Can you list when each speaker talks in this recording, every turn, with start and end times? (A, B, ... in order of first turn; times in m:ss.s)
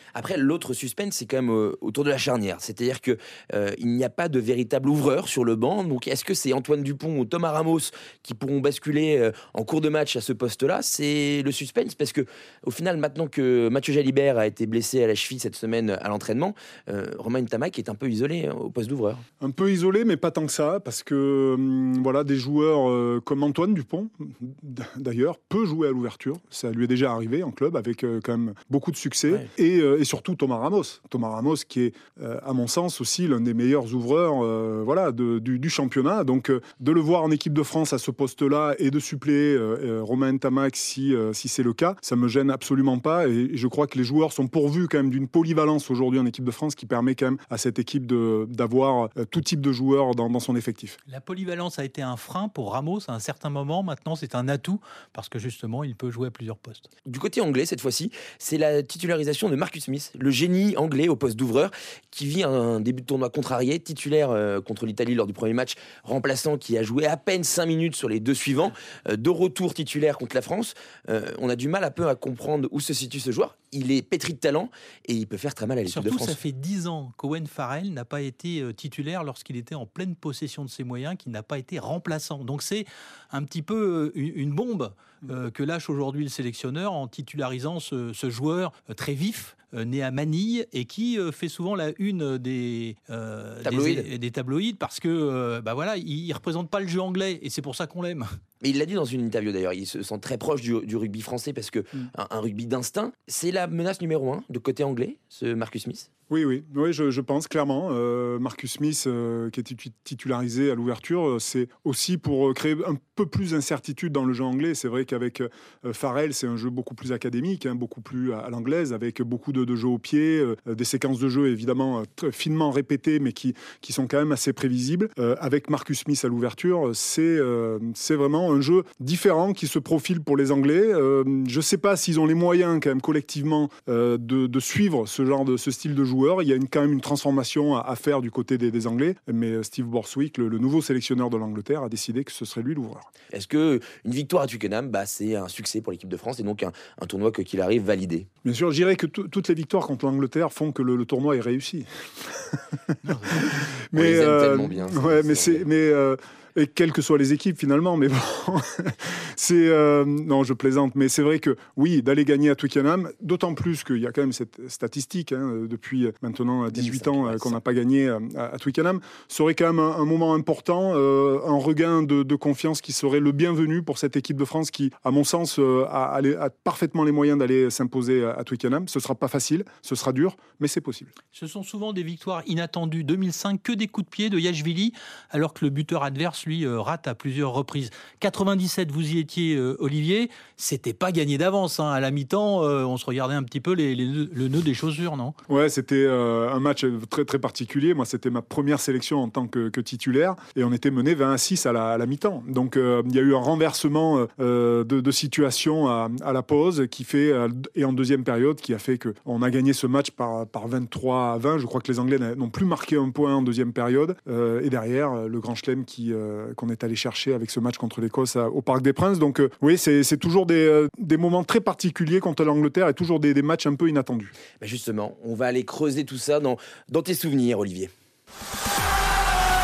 0:00.1-0:19.2 A
0:19.4-0:51.0 B
0:51.1-0:56.9 C
0:57.0-1:16.4 A
1:15.8-1:38.2 C
1:33.6-1:34.1 A
1:38.6-1:46.1 A
1:46.3-2:23.1 B
2:23.3-2:28.3 A
2:28.4-3:01.1 B
2:33.9-2:35.7 A
2:46.7-2:47.6 A
3:01.3-3:15.3 C
3:15.5-3:44.3 B
3:44.6-3:47.9 A